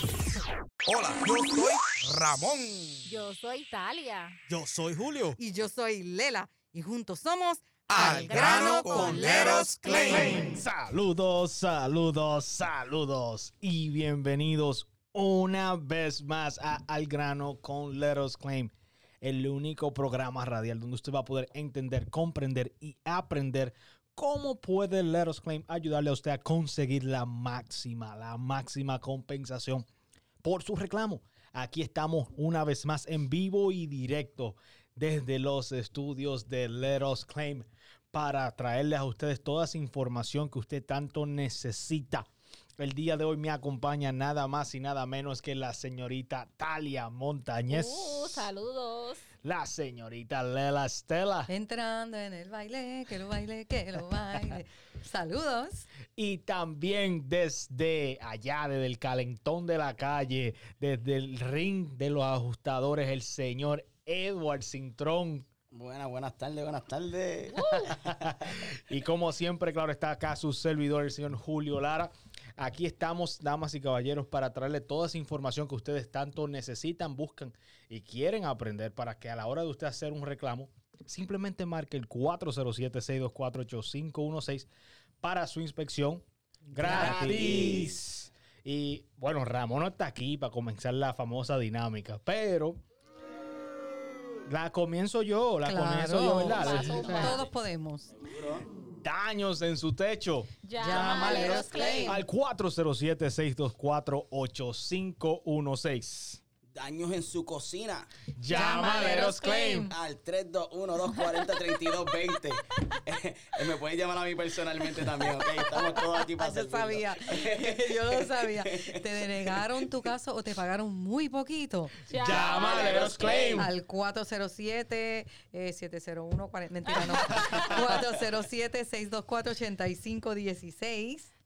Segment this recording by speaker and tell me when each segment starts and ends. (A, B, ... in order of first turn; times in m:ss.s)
0:00.8-0:03.1 A
0:03.0-0:04.4 B
0:04.5-0:05.3 C
0:05.4-0:10.6 D
0:07.9-0:10.6 A
0:10.0-0:29.8 C
0:30.4-0:42.3 C
0:42.8-0:48.5 C
0:47.7-0:49.3 B
0:49.4-0:51.5 C
0:51.5-0:55.9 D
0:56.2-1:05.4 C
1:05.7-1:08.3 E
1:07.6-1:07.9 B
1:07.9-1:24.7 C
1:25.2-1:32.8 C
1:26.7-1:27.8 D
1:26.9-1:27.9 E
1:34.5-1:37.4 C
1:35.6-1:38.1 D
1:36.3-1:37.4 B
1:36.6-1:37.5 E
1:38.2-1:38.7 E
1:39.0-1:46.4 C
1:40.6-1:42.2 B
1:40.8-1:42.2 D
1:46.7-1:48.2 E
1:48.4-1:49.9 C
1:48.5-1:49.9 B
1:48.5-1:49.1 D
1:49.8-1:59.7 E
1:51.1-1:51.9 B
1:55.0-1:55.7 B
1:56.4-2:02.0 D
2:02.1-2:03.7 B
2:02.1-2:03.7 C
2:02.2-2:03.6 E
2:03.6-2:11.3 D
2:07.0-2:07.7 B